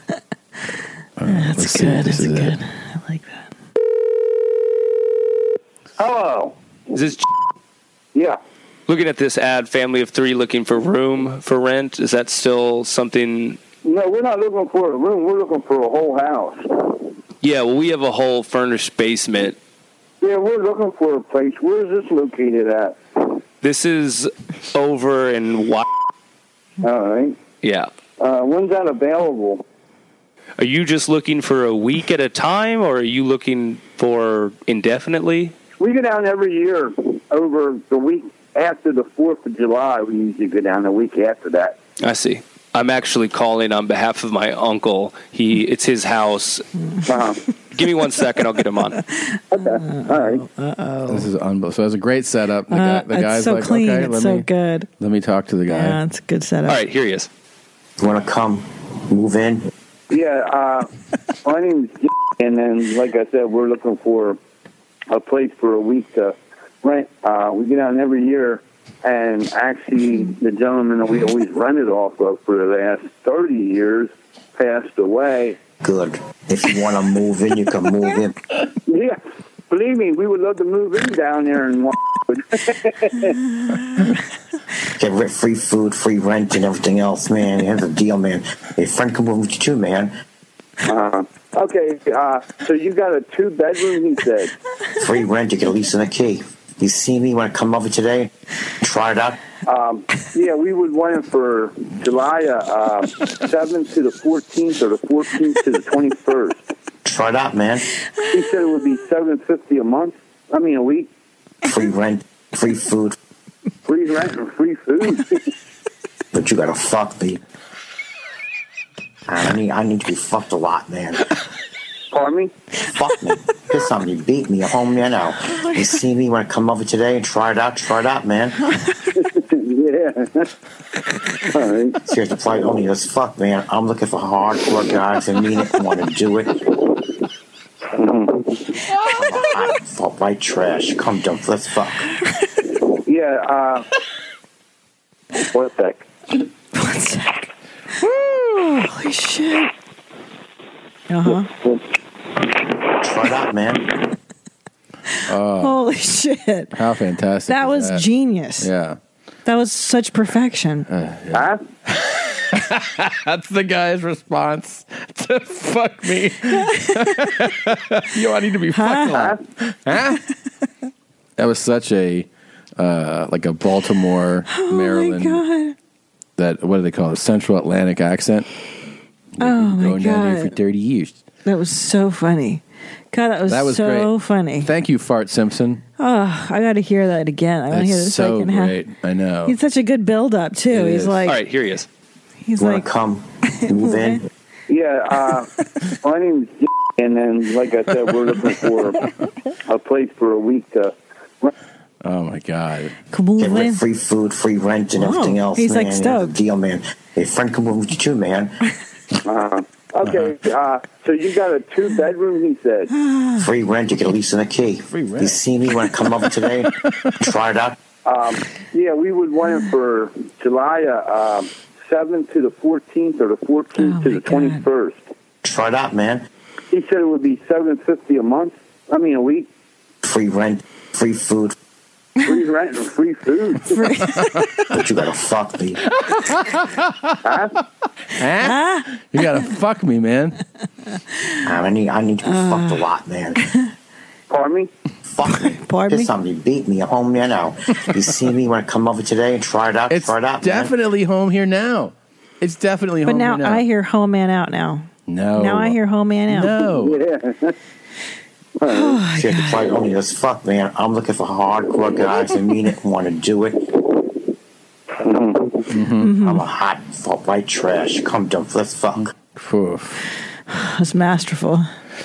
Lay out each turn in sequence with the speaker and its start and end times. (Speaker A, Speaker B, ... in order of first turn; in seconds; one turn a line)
Speaker A: 1.2-2.5
Speaker B: 1.2-3.4
Speaker C: 6.0-6.5
Speaker D: 6.9-7.2
Speaker C: 8.1-8.4
Speaker D: 8.9-13.6
Speaker C: 13.8-17.0
Speaker D: 17.4-19.6
Speaker C: 20.2-23.0
Speaker D: 23.6-25.8
Speaker C: 26.8-27.4
Speaker D: 27.6-27.9
Speaker C: 28.2-29.6
Speaker D: 30.6-35.5
Speaker C: 35.8-41.8
Speaker D: 42.0-46.6
Speaker C: 47.1-47.4
Speaker D: 47.7-49.0
Speaker C: 49.5-50.4
Speaker B: 49.6-51.3
Speaker A: 51.1-54.5
Speaker B: 52.7-54.9
Speaker A: 55.0-56.0
Speaker B: 55.7-56.8
Speaker D: 56.6-57.3
Speaker E: 58.0-59.6
Speaker C: 60.1-60.9
Speaker C: 61.4-64.4
Speaker C: 65.1-75.6
Speaker E: 75.8-78.3
Speaker C: 78.9-83.3
Speaker E: 85.0-90.1
Speaker C: 90.9-94.5
Speaker E: 95.0-98.3
Speaker E: 98.8-99.4
Speaker C: 99.7-106.6
Speaker E: 107.0-107.8
Speaker C: 108.3-111.1
Speaker E: 111.7-113.1
Speaker C: 113.8-115.4
Speaker E: 116.3-117.4
Speaker E: 119.3-121.2
Speaker C: 122.1-122.5
Speaker E: 122.9-128.6
Speaker B: 125.6-125.9
Speaker C: 129.2-130.5
Speaker C: 131.4-132.0
Speaker E: 132.0-136.5
Speaker C: 137.9-138.6
Speaker E: 139.1-142.0
Speaker C: 143.0-143.8
Speaker C: 145.4-146.0
Speaker B: 146.8-147.4
Speaker B: 148.0-149.7
Speaker B: 151.1-151.5
Speaker C: 151.3-151.8
Speaker E: 153.0-153.8
Speaker A: 155.3-155.7
Speaker B: 155.6-156.7
Speaker A: 156.7-158.1
Speaker B: 157.5-158.7
Speaker A: 158.6-159.0
Speaker B: 159.4-160.8
Speaker A: 160.9-170.2
Speaker C: 161.3-161.6
Speaker B: 168.7-169.2
Speaker C: 169.1-169.4
Speaker A: 171.4-175.4
Speaker B: 174.5-175.7
Speaker A: 176.4-178.5
Speaker A: 179.4-181.2
Speaker B: 179.4-180.6
Speaker B: 181.4-182.6
Speaker B: 183.1-184.7
Speaker A: 183.5-185.8
Speaker B: 186.0-188.8
Speaker A: 187.7-189.6
Speaker B: 189.5-191.4
Speaker A: 190.7-191.3
Speaker D: 191.2-191.8
Speaker B: 192.4-192.9
Speaker E: 192.6-194.2
Speaker B: 193.7-194.2
Speaker C: 194.7-195.5
Speaker C: 196.0-199.0
Speaker C: 199.7-201.5
Speaker A: 202.0-202.9
Speaker B: 203.1-203.8
Speaker E: 203.4-208.5
Speaker B: 205.0-206.3
Speaker C: 209.2-212.9
Speaker A: 210.0-210.3
Speaker B: 212.9-213.5
Speaker E: 213.4-216.7
Speaker A: 214.9-215.4
Speaker E: 217.2-217.8
Speaker C: 218.0-225.0
Speaker B: 223.8-224.6
Speaker E: 225.4-226.2
Speaker C: 226.7-229.5
Speaker E: 230.0-231.5
Speaker C: 232.2-233.8
Speaker B: 233.7-234.7
Speaker E: 234.7-235.8
Speaker A: 236.0-237.2
Speaker C: 237.2-237.5
Speaker A: 238.2-240.3
Speaker B: 238.4-238.8
Speaker E: 241.4-243.3
Speaker B: 242.2-242.9
Speaker C: 244.3-244.7
Speaker E: 245.1-250.7
Speaker B: 245.4-246.1
Speaker A: 249.9-253.6
Speaker B: 253.1-256.6
Speaker A: 255.1-257.0
Speaker C: 256.7-257.5
Speaker C: 258.6-259.0
Speaker B: 258.7-259.7
Speaker E: 259.1-263.6
Speaker C: 264.9-265.6
Speaker A: 265.7-266.1
Speaker B: 266.0-266.5
Speaker E: 266.2-269.1
Speaker A: 269.0-270.0
Speaker B: 270.5-271.6